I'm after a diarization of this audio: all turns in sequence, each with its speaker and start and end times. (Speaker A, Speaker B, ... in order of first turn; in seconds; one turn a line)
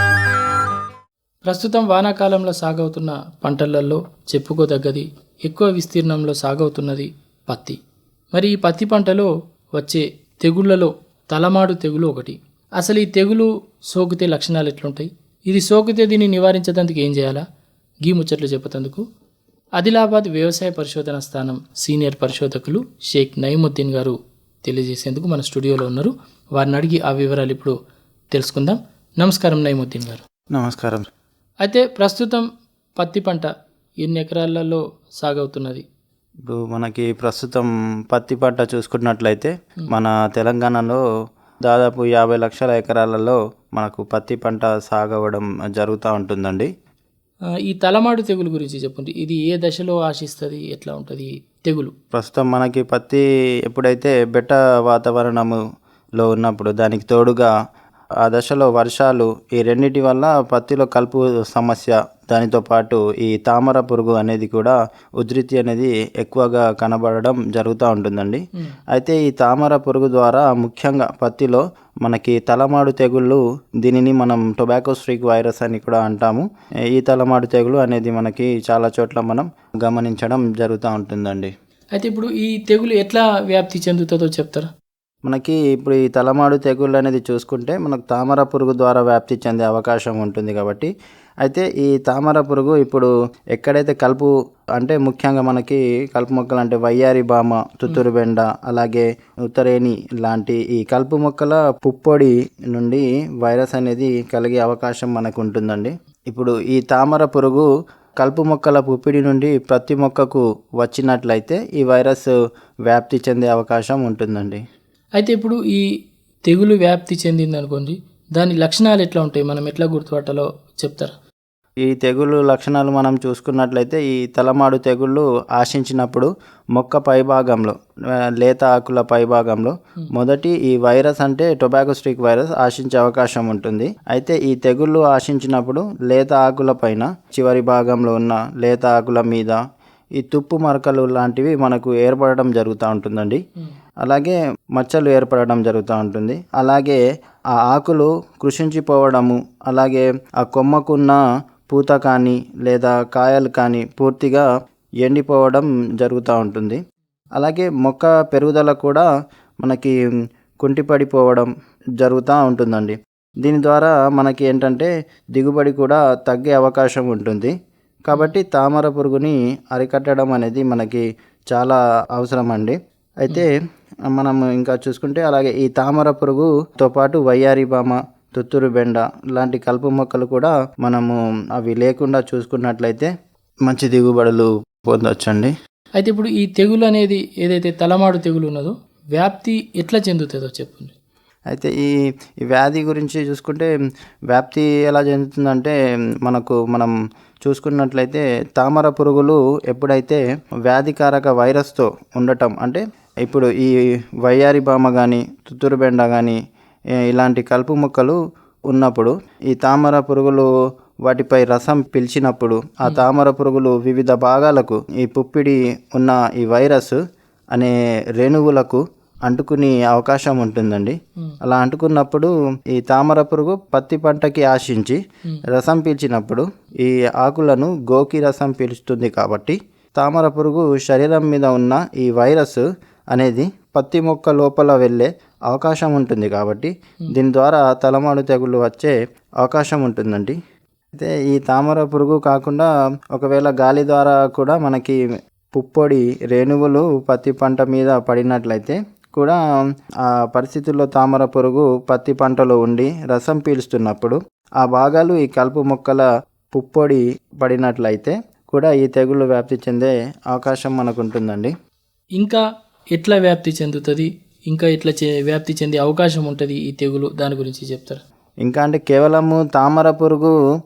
Speaker A: 1.5-7.8
Speaker A: 8.3-17.4
Speaker A: 18.0-19.0
Speaker A: 19.8-27.8
Speaker A: 28.3-30.2
Speaker B: 30.5-31.1
Speaker A: 31.6-32.4
Speaker A: 33.0-33.5
Speaker A: 34.0-35.8
Speaker B: 36.5-41.0
Speaker B: 41.7-46.7
Speaker A: 47.7-51.9
Speaker B: 52.1-55.6
Speaker B: 56.2-57.5
Speaker B: 58.2-81.5
Speaker A: 82.0-84.7
Speaker B: 85.3-90.9
Speaker B: 91.4-107.7
Speaker B: 108.2-112.3
Speaker B: 112.9-114.6
Speaker A: 115.2-115.9
Speaker A: 116.5-121.1
Speaker B: 121.9-127.7
Speaker B: 128.4-139.6
Speaker B: 140.2-143.4
Speaker B: 144.0-147.0
Speaker B: 147.6-154.5
Speaker B: 155.0-156.8
Speaker B: 157.4-159.1
Speaker B: 159.6-159.9
Speaker B: 160.6-161.5
Speaker B: 162.0-167.5
Speaker B: 168.0-173.5
Speaker B: 174.1-183.1
Speaker B: 183.7-185.5
Speaker A: 186.0-190.9
Speaker B: 191.5-191.9
Speaker B: 192.5-193.7
Speaker B: 194.3-196.9
Speaker B: 197.4-203.7
Speaker B: 204.2-206.4
Speaker B: 207.1-208.2
Speaker B: 208.7-210.5
Speaker B: 211.1-217.0
Speaker B: 217.5-240.3
Speaker B: 240.9-245.0
Speaker B: 245.5-249.4
Speaker B: 250.0-261.5
Speaker A: 262.9-268.0
Speaker B: 268.4-270.3